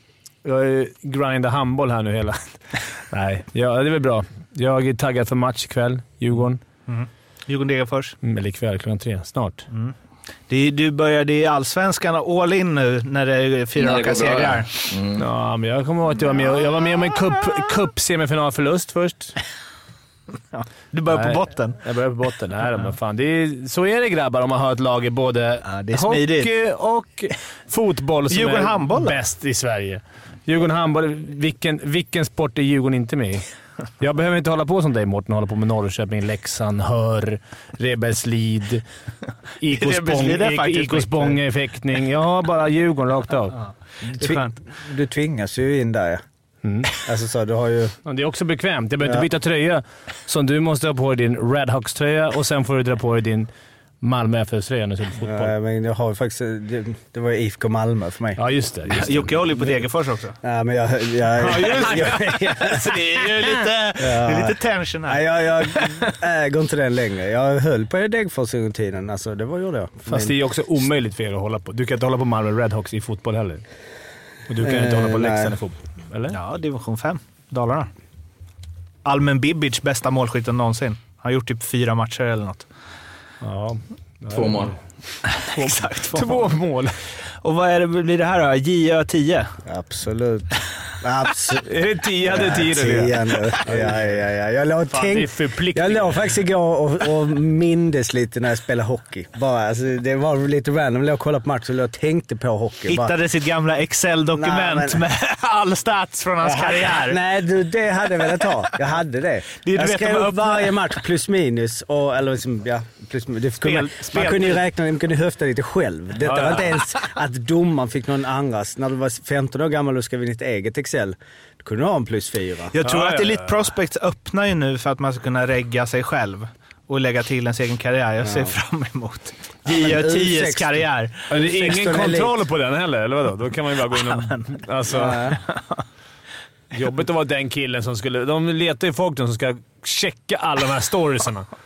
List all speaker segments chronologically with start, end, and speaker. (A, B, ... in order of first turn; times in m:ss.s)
0:00.4-0:06.6 A
0:06.8-0:08.2 B
0:08.2-0:09.6 A
0:10.5-0:14.7 B
0:13.8-0:15.2 C
0:15.2-0:19.4 A
0:20.5-0:21.8 B
0:21.1-0:33.4 A
0:25.6-0:26.5 B
0:28.3-0:29.2 B
0:34.0-0:38.8 A
0:39.6-0:43.6 A
0:39.7-0:41.4 B
0:43.6-0:44.6 B
0:44.1-0:46.2 D
0:46.6-0:46.9 A
0:47.0-0:47.9 D
0:48.0-0:53.5 A
0:54.0-0:55.5 A
0:55.2-0:58.4 D
0:58.4-0:59.3 A
0:58.9-1:00.4 B
1:00.4-1:02.9 D
1:01.4-1:02.5 A
1:01.6-1:06.1 B
1:04.0-1:10.4 D
1:10.1-1:13.6 A
1:14.5-1:16.4 A
1:14.6-1:15.6 D
1:16.3-1:17.9 B
1:19.0-1:22.6 B
1:23.4-1:24.7 A
1:24.3-1:24.8 C
1:25.3-1:26.5 B
1:25.5-1:26.9 A
1:27.4-1:29.5 B
1:29.6-1:31.7 D
1:31.7-1:34.2 A
1:32.2-1:43.1 D
1:34.9-1:36.3 A
1:42.9-1:47.2 B
1:44.3-1:45.0 D
1:46.4-2:02.7 D
1:49.6-1:50.9 B
1:53.6-1:54.6 A
1:56.2-1:56.7 A
2:02.7-2:11.4 B
2:02.8-2:03.6 A
2:08.2-2:08.5 D
2:09.6-2:10.8 D
2:11.3-2:15.2 A
2:11.4-2:12.4 D
2:13.9-2:15.8 B
2:14.9-2:15.4 D
2:16.7-2:21.5 A